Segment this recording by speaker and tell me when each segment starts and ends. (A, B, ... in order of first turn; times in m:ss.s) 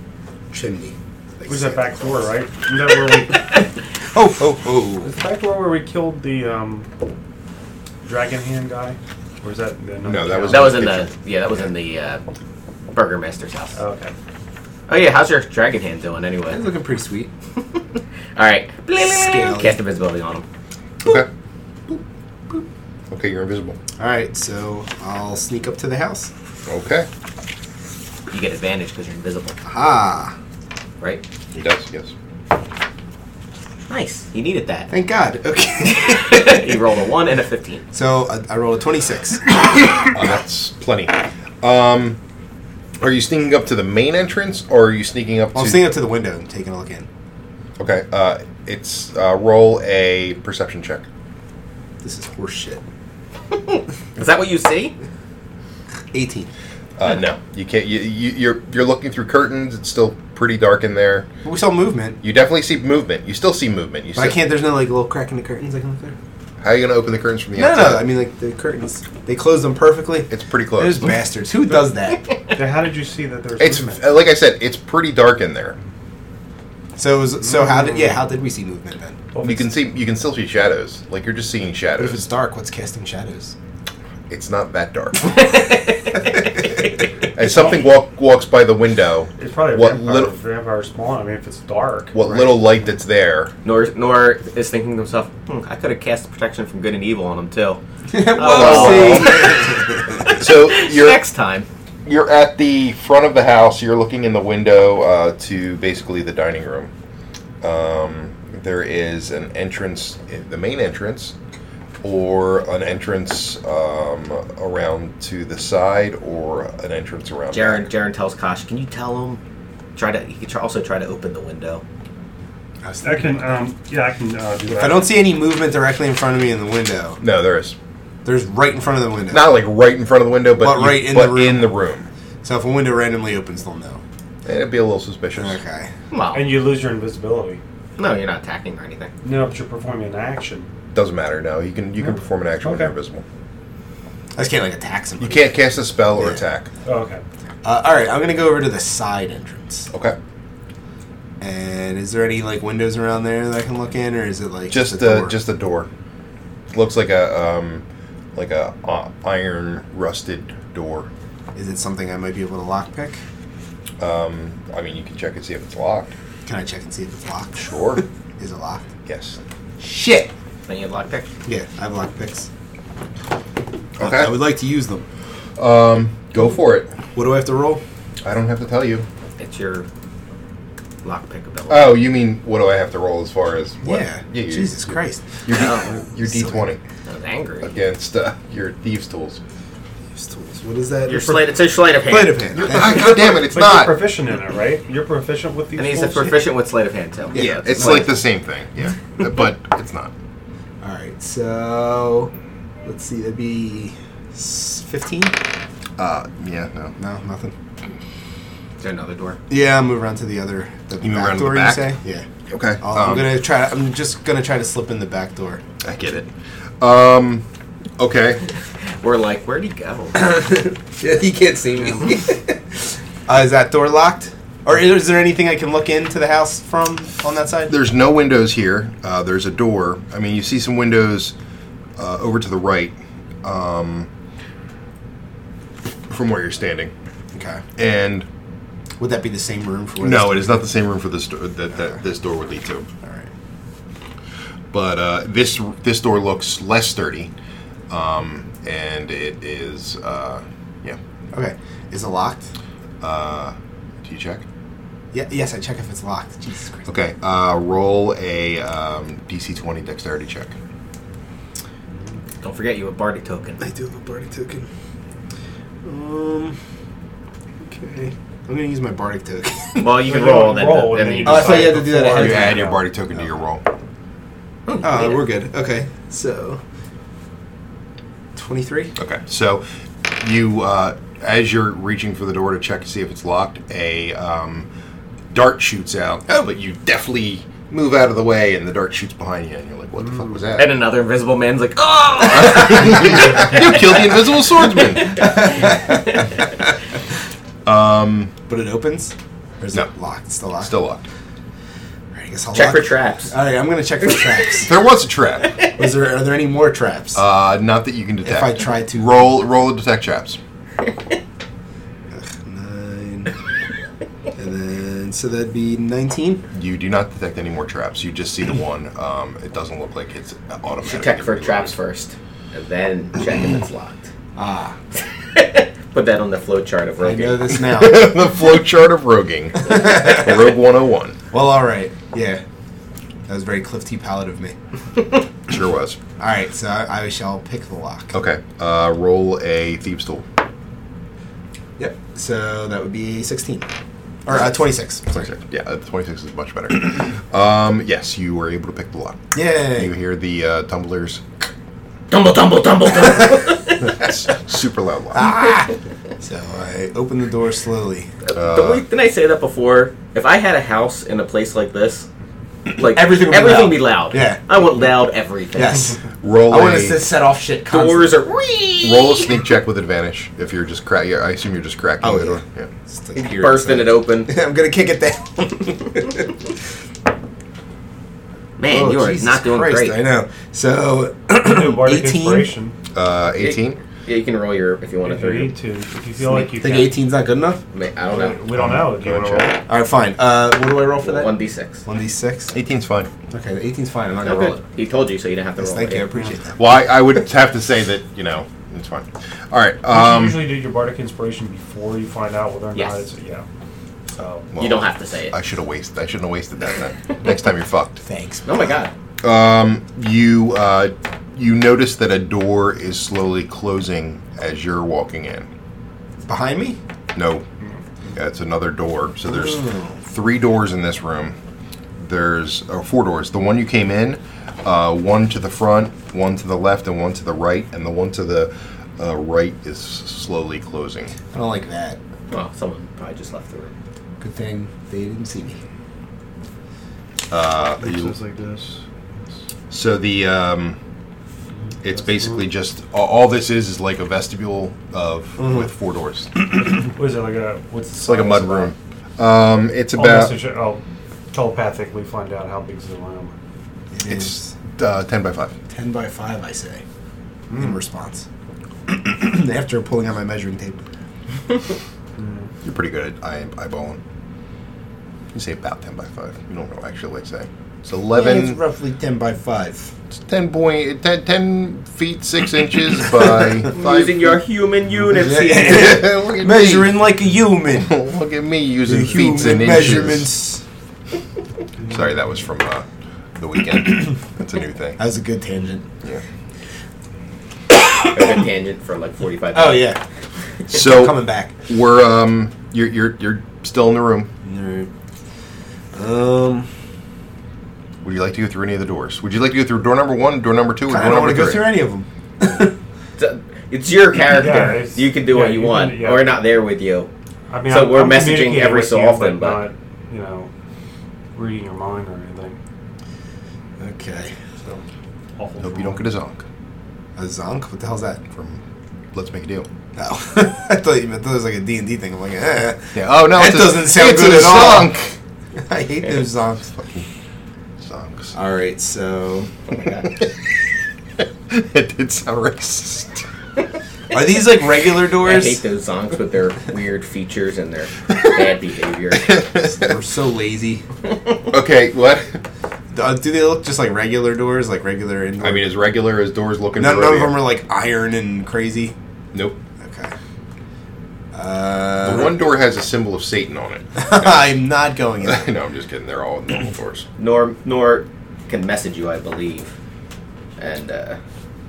0:00.5-0:02.3 A
0:01.5-0:03.4 B
0:04.1-0:05.1 A
0:05.0-0:06.9 B
0:08.0-0:10.8 B
0:10.0-0:11.1 C
0:10.5-0:12.2 D
0:12.9-0:13.8 D
0:13.8-0:14.1 B
0:14.9-0:16.6 D
0:16.5-0:17.3 A
0:18.4-0:20.4 D
0:19.0-0:19.8 A
0:22.5-0:23.8 C
0:24.0-0:26.3 A
0:26.7-0:27.1 C
0:28.3-0:29.6 D
0:29.7-0:30.4 A
0:31.5-0:32.1 C
0:33.9-0:34.9 D
0:34.9-0:36.6 A
0:35.9-0:37.8 D
0:37.9-0:39.9 A
0:40.0-0:42.2 C
0:43.0-0:45.9 C
0:45.5-0:47.1 A
0:47.8-0:51.0 C
0:52.0-0:52.8 A
0:53.5-0:55.0 D
0:56.1-0:56.5 A
0:57.0-1:01.3 C
1:01.4-1:02.2 A
1:02.2-1:04.4 C
1:04.1-1:06.2 A
1:06.6-1:08.1 C
1:07.6-1:12.3 A
1:10.3-1:11.2 C
1:12.5-1:14.2 B
1:13.6-1:15.8 C
1:17.0-1:19.2 A
1:19.3-1:19.7 B
1:19.4-1:22.2 C
1:22.0-1:23.5 A
1:24.3-1:25.5 C
1:25.3-1:26.8 D
1:27.3-1:30.3 C
1:29.4-1:32.5 B
1:32.1-1:33.5 C
1:33.6-1:39.6 D
1:38.1-1:40.3 A
1:38.5-1:39.5 C
1:40.2-1:41.2 C
1:40.4-1:41.7 D
1:42.0-1:46.9 C
1:47.6-1:51.3 C
1:52.0-1:57.9 C
1:57.5-1:59.4 D
2:00.0-2:01.8 D
2:02.8-2:03.4 A
2:03.0-2:05.2 B
2:04.8-2:07.2 A
2:07.2-2:07.8 C
2:08.2-2:09.5 A
2:09.3-2:12.1 C
2:10.6-2:11.8 A
2:12.4-2:14.0 A
2:14.4-2:15.6 C
2:15.4-2:15.9 A
2:16.1-2:16.5 D
2:16.3-2:17.6 B
2:18.0-2:19.1 D
2:19.2-2:20.7 B
2:20.9-2:23.2 C
2:22.0-2:22.9 B
2:24.4-2:25.5 A
2:25.2-2:26.7 C
2:26.2-2:26.4 A
2:26.8-2:27.2 B
2:27.6-2:29.9 A
2:29.9-2:30.2 C
2:31.4-2:35.4 A
2:34.7-2:35.9 C
2:36.7-2:41.1 C
2:41.6-2:43.2 A
2:44.0-2:46.1 C
2:46.4-2:48.9 A
2:47.6-2:48.0 C
2:49.1-2:49.4 C
2:49.8-2:50.3 A
2:50.7-2:51.3 D
2:51.4-2:52.5 A
2:54.0-2:54.4 C
2:54.0-2:55.0 A
2:55.6-2:56.9 C
2:57.2-2:57.8 A
2:58.2-2:59.1 C
2:59.4-2:59.9 D
3:01.0-3:02.0 D
3:01.7-3:06.8 C
3:03.8-3:06.7 A
3:05.5-3:06.0 D
3:07.1-3:07.7 D
3:07.6-3:09.4 C
3:10.1-3:11.5 A
3:11.0-3:12.5 D
3:12.1-3:13.4 A
3:12.5-3:13.9 C
3:13.0-3:16.4 B
3:15.8-3:18.1 D
3:17.3-3:18.2 A
3:17.3-3:20.1 C
3:20.8-3:22.3 A
3:22.8-3:25.4 A
3:26.0-3:27.0 C
3:27.0-3:27.6 A
3:28.8-3:29.4 D
3:29.5-3:32.3 A
3:31.0-3:32.0 C
3:32.5-3:33.4 C
3:32.8-3:35.6 A
3:35.8-3:37.4 C
3:38.0-3:38.4 C
3:39.0-3:40.4 D
3:40.2-3:47.7 A
3:47.7-3:51.3 C
3:52.0-3:54.1 C
3:56.1-3:56.9 C
3:57.3-3:57.6 A
3:57.8-3:58.3 C
3:59.0-4:00.6 A
4:00.0-4:02.9 C
4:03.0-4:03.3 A
4:04.7-4:07.3 C
4:07.9-4:11.0 C
4:11.3-4:12.5 A
4:13.0-4:14.4 C
4:15.1-4:16.9 A
4:16.9-4:20.6 C
4:22.4-4:23.6 D
4:23.6-4:24.7 A
4:25.8-4:26.6 A
4:27.6-4:30.0 A
4:29.8-4:31.8 D
4:30.0-4:32.7 B
4:31.2-4:33.2 A
4:32.1-4:33.6 C
4:34.7-4:35.3 D
4:34.8-4:36.6 A
4:38.4-4:38.9 A
4:39.0-4:44.7 C
4:45.3-4:50.8 C
4:50.6-4:54.0 D
4:52.3-4:55.8 C
4:55.1-4:56.3 A
4:57.6-4:58.4 C
4:58.5-5:00.7 A
5:00.6-5:01.0 C
5:02.1-5:04.7 A
5:02.5-5:03.3 D
5:04.6-5:05.6 C
5:05.7-5:07.2 A
5:07.2-5:10.4 C
5:08.2-5:09.3 A
5:12.1-5:13.3 A
5:14.4-5:16.4 A
5:16.5-5:21.7 C
5:20.8-5:24.1 D
5:24.4-5:24.8 A
5:25.3-5:27.5 D
5:27.0-5:28.2 A
5:27.6-5:31.2 C
5:29.7-5:30.4 A
5:31.3-5:32.4 A
5:33.3-5:34.6 A
5:35.5-5:36.0 C
5:36.2-5:38.2 A
5:38.1-5:40.2 C
5:41.8-5:43.7 A
5:44.2-5:45.1 A
5:45.1-5:51.3 C
5:49.3-5:49.9 A
5:52.1-5:53.9 D
5:53.9-5:55.3 C
5:55.1-5:58.1 A
5:58.2-6:02.1 D
5:58.4-5:58.8 C
6:02.7-6:04.9 A
6:02.7-6:06.0 D
6:05.6-6:06.0 A
6:06.2-6:07.0 C
6:06.5-6:08.2 A
6:07.7-6:09.4 D
6:08.8-6:12.7 C
6:12.0-6:16.3 A
6:13.2-6:14.3 D
6:18.6-6:20.0 D
6:18.7-6:22.5 A
6:21.4-6:22.8 B
6:22.9-6:23.8 C
6:23.4-6:25.5 D
6:25.0-6:26.9 B
6:26.2-6:27.6 A
6:27.7-6:28.4 D
6:28.1-6:29.6 B
6:28.5-6:29.5 C
6:29.7-6:31.3 A
6:31.0-6:31.8 D
6:31.8-6:32.6 A
6:32.5-6:33.1 C
6:33.3-6:34.6 A
6:34.2-6:36.1 D
6:35.6-6:36.6 A
6:36.6-6:40.5 C
6:39.9-6:43.5 B
6:42.8-6:43.0 D
6:44.2-6:44.5 B
6:44.5-6:48.0 C
6:44.6-6:45.4 D
6:48.0-6:48.8 A
6:48.4-6:48.9 D
6:49.2-6:55.5 C
6:56.3-6:56.8 A
6:57.2-6:57.4 C
6:58.1-7:01.4 C
6:59.3-7:00.0 A
7:02.0-7:11.1 C
7:11.3-7:12.0 A
7:12.3-7:13.7 D
7:14.2-7:15.6 A
7:17.3-7:18.2 C
7:17.8-7:18.8 B
7:19.7-7:20.8 C
7:21.8-7:26.6 C
7:25.4-7:25.7 A
7:26.4-7:28.7 B
7:28.0-7:30.3 C
7:29.9-7:30.8 B
7:31.3-7:33.3 B
7:33.9-7:34.5 A
7:34.1-7:35.5 C
7:35.7-7:36.8 A
7:37.5-7:37.8 B
7:37.5-7:38.3 A
7:38.9-7:40.8 A
7:42.2-7:42.5 B
7:42.6-7:44.0 C
7:45.3-7:48.6 C
7:48.1-7:49.9 A
7:50.1-7:54.4 C
7:53.2-7:53.5 A
7:53.7-7:56.0 D
7:55.1-7:58.0 A
7:55.6-7:57.0 C
7:57.7-8:00.3 C
7:58.8-8:00.6 A
8:01.9-8:02.9 C
8:03.4-8:05.0 C
8:05.0-8:05.9 A
8:08.1-8:10.0 D
8:09.5-8:10.0 A
8:10.7-8:14.3 C
8:10.7-8:11.5 A
8:14.4-8:14.9 A
8:15.9-8:16.7 A
8:18.0-8:21.7 C
8:20.9-8:22.8 A
8:23.2-8:27.1 D
8:24.3-8:26.3 B
8:27.5-8:30.5 B
8:27.7-8:29.6 D
8:31.4-8:32.6 B
8:33.8-8:34.4 A
8:35.4-8:36.1 B
8:35.6-8:36.4 C
8:37.2-8:38.2 A
8:38.3-8:38.6 C
8:39.1-8:39.7 C
8:40.0-8:45.0 A
8:43.0-8:45.2 C
8:45.6-8:46.8 A
8:46.8-8:47.1 C
8:47.8-8:48.4 C
8:48.3-8:49.5 A
8:51.5-8:53.3 C
8:54.1-8:55.6 A
8:55.2-8:59.4 D
8:59.2-8:59.9 C
8:59.6-9:00.8 A
9:01.5-9:02.4 C
9:02.9-9:05.7 A
9:05.4-9:07.4 C
9:06.8-9:09.0 A
9:09.3-9:09.6 C
9:09.8-9:10.1 A
9:11.3-9:12.4 A
9:12.0-9:14.4 C
9:14.0-9:15.5 A
9:15.2-9:17.1 C
9:17.2-9:19.7 D
9:20.6-9:21.2 D